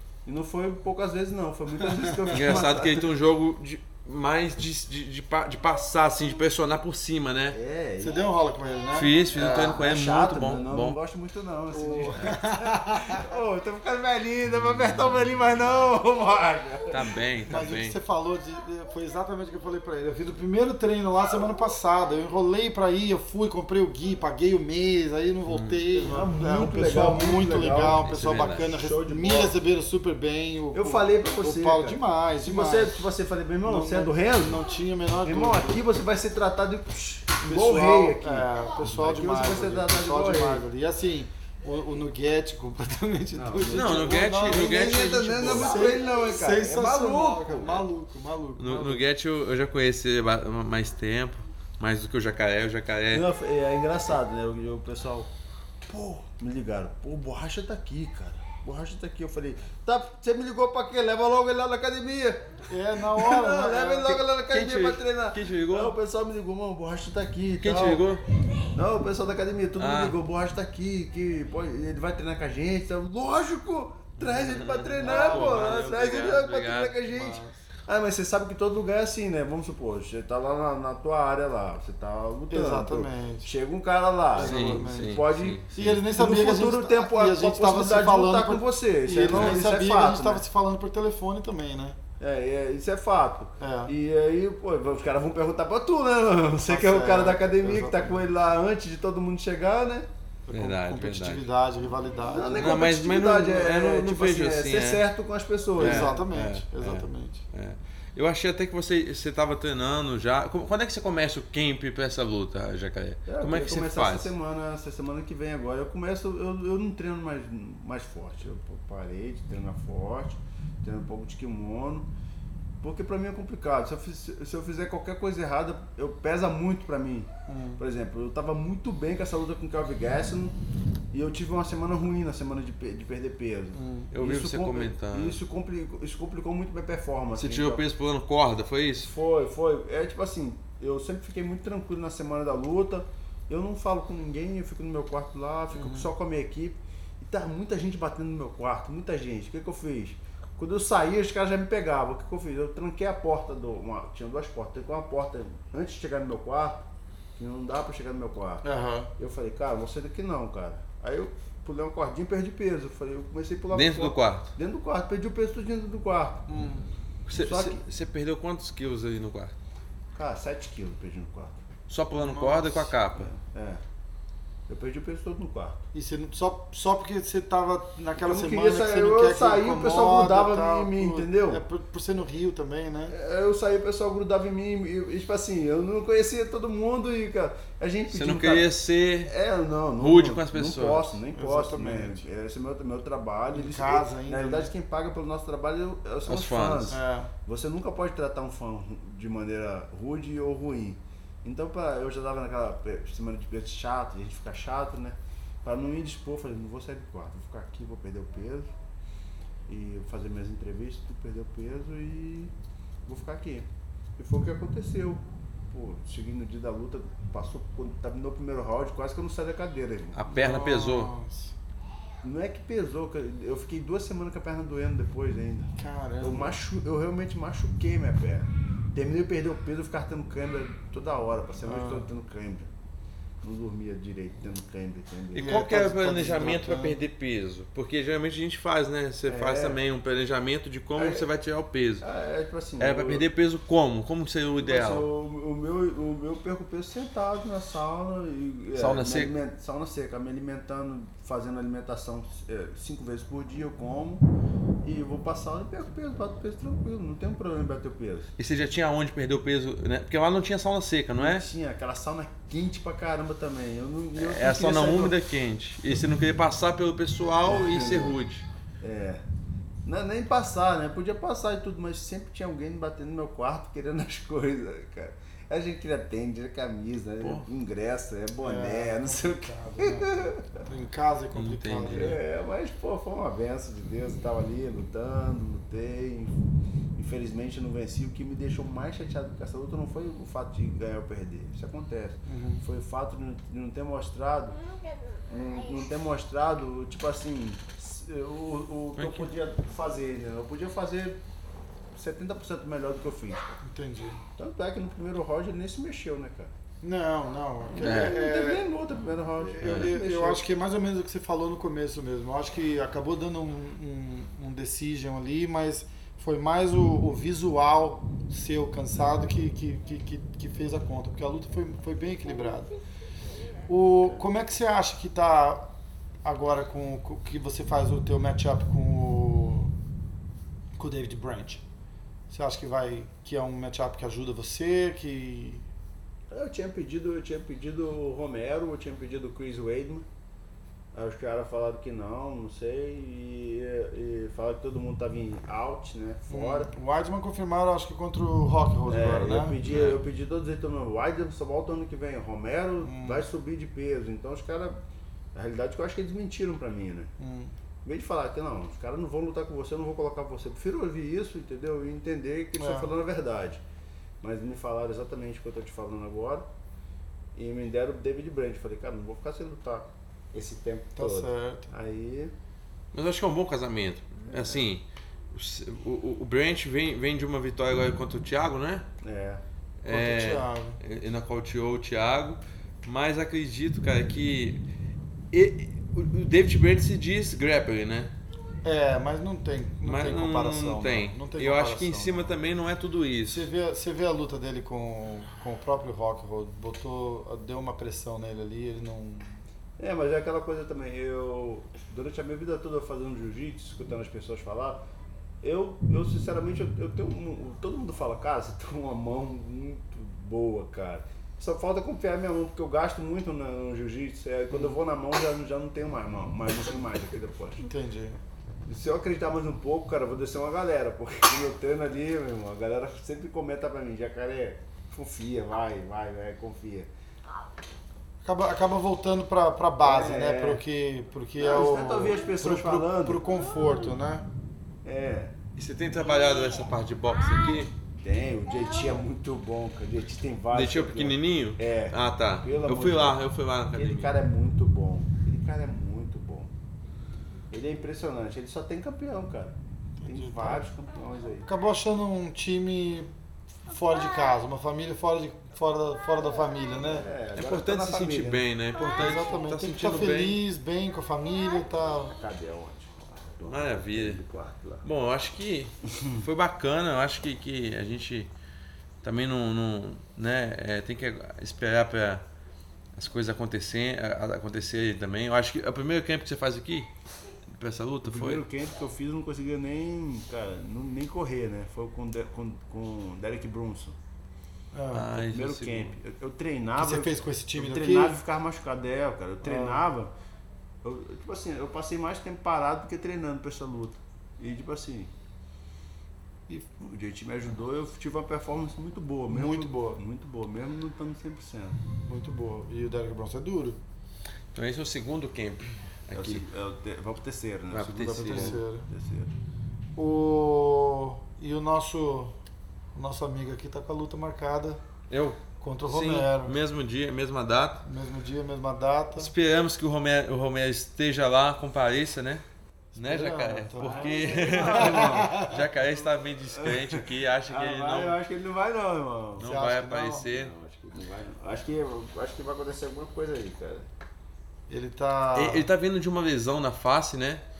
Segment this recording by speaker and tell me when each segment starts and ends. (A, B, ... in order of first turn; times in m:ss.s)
0:00.2-0:03.1 A
0:02.3-0:07.6 B
0:07.5-0:08.3 A
0:08.0-0:09.6 C
0:08.9-0:11.0 B
0:09.3-0:17.2 A
0:11.7-0:13.2 C
0:16.9-0:18.0 B
0:17.5-0:33.1 C
0:25.5-0:25.8 B
0:25.9-0:28.0 A
0:28.0-0:28.8 B
0:28.7-0:29.5 A
0:30.7-0:34.6 A
0:33.6-0:35.8 C
0:35.2-0:40.6 A
0:37.4-0:49.0 C
0:43.3-0:47.9 A
0:43.7-0:45.9 B
0:48.6-0:53.3 B
0:53.1-0:55.3 A
0:55.9-1:08.0 A
1:02.7-1:04.2 C
1:04.5-1:06.0 B
1:07.6-1:08.2 B
1:08.7-1:30.4 A
1:09.8-1:10.2 B
1:14.2-1:17.0 B
1:15.0-1:15.8 C
1:17.0-1:17.6 C
1:22.5-1:23.5 C
1:24.3-1:32.0 C
1:24.4-1:26.0 B
1:29.3-1:29.6 B
1:32.2-1:40.1 A
1:33.6-1:33.9 C
1:36.6-1:38.2 C
1:40.5-1:42.8 C
1:40.5-1:41.5 B
1:42.3-1:46.2 A
1:42.5-1:45.0 B
1:45.8-1:54.3 B
1:45.8-1:47.4 C
1:53.3-2:02.1 A
2:02.8-2:10.6 A
2:07.5-2:07.8 C
2:11.1-2:17.8 A
2:13.8-2:14.1 C
2:14.1-2:15.4 B
2:17.4-2:19.1 B
2:19.0-2:38.6 A
2:25.7-2:26.1 C
2:38.6-2:39.1 C
2:39.2-2:46.5 A
2:43.7-2:44.5 B
2:46.5-2:46.9 C
2:47.3-2:49.5 B
2:47.4-2:47.8 A
2:50.2-2:51.6 A
2:51.9-2:53.3 B
2:52.1-2:52.9 C
2:53.2-2:53.8 A
2:54.7-2:55.8 A
2:55.9-3:03.1 C
2:58.2-3:01.6 A
3:03.1-3:08.7 A
3:08.1-3:09.3 B
3:09.2-3:28.7 A
3:10.0-3:11.2 B
3:11.3-3:12.3 C
3:13.5-3:14.7 C
3:16.3-3:17.0 B
3:16.9-3:17.3 C
3:29.7-3:32.5 A
3:33.1-3:40.2 A
3:40.1-3:41.1 B
3:40.3-3:41.5 C
3:42.2-3:52.7 A
3:45.8-3:46.6 C
3:51.6-3:52.1 C
3:53.4-3:56.5 A
3:55.4-3:57.0 C
3:55.4-4:02.0 B
3:59.3-3:59.8 A
4:01.0-4:01.3 A
4:02.0-4:03.2 A
4:02.8-4:05.1 B
4:04.6-4:14.3 A
4:08.8-4:09.3 B
4:14.8-4:18.3 A
4:18.4-4:21.5 B
4:21.2-4:25.2 A
4:24.2-4:28.5 B
4:27.4-4:28.2 A
4:28.8-4:29.2 A
4:29.8-4:40.5 A
4:37.2-4:37.5 B
4:38.4-4:42.2 C
4:41.4-4:42.2 B
4:41.9-4:46.3 A
4:47.0-4:54.6 A
4:52.3-4:52.6 C
4:55.3-5:01.2 A
4:59.0-4:59.3 B
5:02.0-5:03.5 A
5:03.6-5:04.2 C
5:04.4-5:06.5 A
5:06.8-5:08.7 C
5:07.7-5:10.5 A
5:07.8-5:08.2 B
5:09.4-5:22.7 C
5:09.6-5:10.0 B
5:23.7-5:25.7 C
5:26.2-5:29.7 C
5:30.8-5:31.6 C
5:32.3-5:35.6 C
5:36.3-5:40.1 A
5:40.9-5:46.7 A
5:46.3-5:49.6 C
5:48.9-5:54.8 A
5:49.6-5:50.0 B
5:52.8-5:53.3 C
5:55.3-5:57.1 A
5:57.2-5:57.5 C
5:57.8-6:03.6 A
6:02.6-6:02.9 C
6:04.2-6:06.4 A
6:07.4-6:12.3 A
6:11.0-6:11.7 C
6:12.9-6:18.9 B
6:14.3-6:14.6 A
6:19.0-6:19.4 A
6:19.8-6:24.6 B
6:19.9-6:20.8 C
6:25.3-6:28.1 B
6:28.6-6:32.4 C
6:29.8-6:33.5 B
6:33.3-6:39.3 C
6:39.8-6:44.8 A
6:45.4-6:57.7 A
6:54.5-6:54.8 C
6:57.6-6:58.2 C
6:58.7-7:06.9 A
7:08.2-7:14.3 C
7:09.8-7:10.6 A
7:11.4-7:13.2 A
7:14.8-7:15.4 A
7:15.6-7:17.7 B
7:18.0-7:23.2 A
7:20.5-7:24.1 B
7:23.7-7:26.5 A
7:27.5-7:31.5 A
7:30.0-7:30.6 C
7:31.5-7:33.1 C
7:33.7-7:37.1 C
7:36.8-7:38.4 A
7:37.4-7:40.4 B
7:38.8-7:42.1 C
7:42.1-7:44.9 A
7:43.5-7:44.2 B
7:44.8-7:48.3 B
7:49.0-7:52.2 B
7:53.0-7:56.9 B
7:57.5-7:58.4 B
7:58.1-8:04.0 A
8:04.7-8:05.1 C
8:04.9-8:06.0 B
8:05.2-8:10.1 A
8:06.8-8:08.2 C
8:09.4-8:09.8 C
8:10.8-8:15.1 A
8:16.8-8:21.8 A
8:19.3-8:20.0 C
8:22.1-8:23.8 C
8:24.5-8:26.5 B
8:26.1-8:29.3 A
8:27.7-8:28.6 B
8:28.0-8:28.9 C
8:30.0-8:32.4 C
8:33.0-8:34.8 C
8:35.1-8:37.8 B
8:35.6-8:36.6 C
8:37.8-8:39.3 C
8:39.2-8:42.4 B
8:42.9-8:45.6 C
8:43.0-8:48.2 B
8:43.8-8:45.4 A
8:46.5-8:49.5 A
8:49.4-8:50.5 B
8:49.4-8:50.3 C
8:50.2-8:53.9 A
8:54.7-8:55.7 C
8:55.4-8:57.4 B